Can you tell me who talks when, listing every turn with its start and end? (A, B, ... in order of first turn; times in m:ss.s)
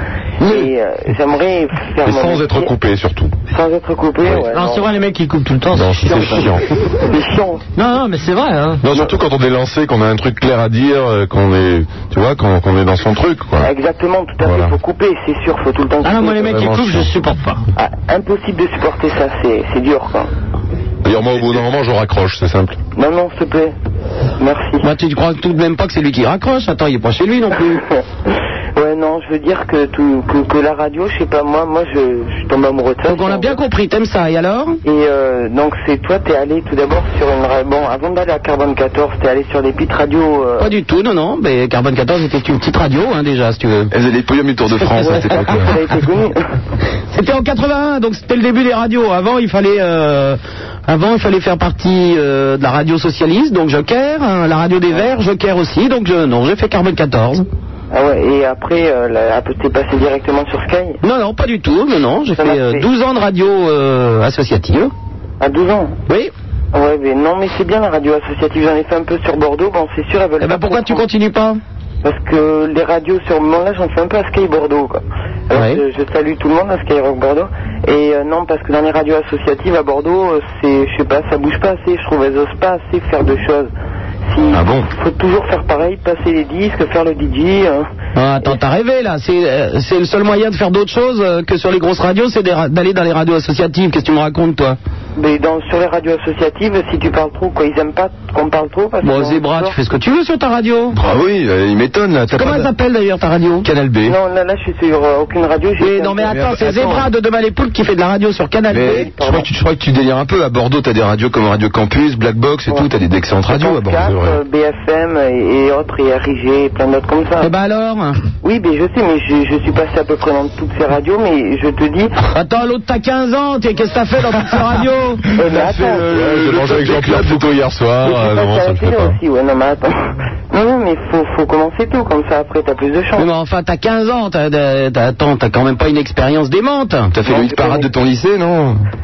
0:00.4-0:02.7 A
0:02.0-0:03.4 B
0:03.5-0:04.9 A
0:04.5-0:06.6 C
0:05.7-0:06.8 B
0:07.0-0:07.6 A
0:07.8-0:08.9 C
0:08.8-0:13.7 B
0:08.9-0:09.2 A
0:13.6-0:16.7 A
0:14.4-0:14.7 B
0:16.0-0:17.6 C
0:16.4-0:17.1 B
0:17.8-0:20.3 A
0:21.0-0:22.8 B
0:23.0-0:23.8 A
0:24.4-0:24.9 A
0:24.8-0:27.8 D
0:27.7-0:33.6 A
0:33.1-0:34.8 D
0:34.8-0:40.7 A
0:40.6-0:43.9 D
0:43.9-0:45.7 E
0:45.0-0:45.3 D
0:45.0-0:46.4 A
0:47.1-0:57.4 D
0:57.9-1:01.0 A
1:01.0-1:04.9 D
1:02.4-1:02.9 A
1:05.4-1:06.0 A
1:06.7-1:11.1 A
1:10.4-1:11.6 D
1:12.0-1:23.7 A
1:15.5-1:15.8 D
1:24.3-1:27.9 A
1:24.5-1:24.9 E
1:28.2-1:34.8 D
1:35.2-1:39.8 A
1:39.0-1:41.0 D
1:40.9-1:42.7 E
1:42.4-1:43.7 D
1:43.6-1:44.2 E
1:44.0-1:46.5 A
1:45.8-1:49.1 D
1:46.3-1:47.1 E
1:48.7-1:54.4 E
1:48.9-1:49.5 A
1:52.7-1:57.5 A
1:57.4-1:58.2 D
1:58.4-2:02.2 A
2:02.3-2:05.3 D
2:05.4-2:06.1 A
2:05.4-2:07.5 E
2:06.1-2:09.2 B
2:08.0-2:13.3 A
2:13.2-2:17.1 D
2:17.1-2:18.8 E
2:17.2-2:17.9 A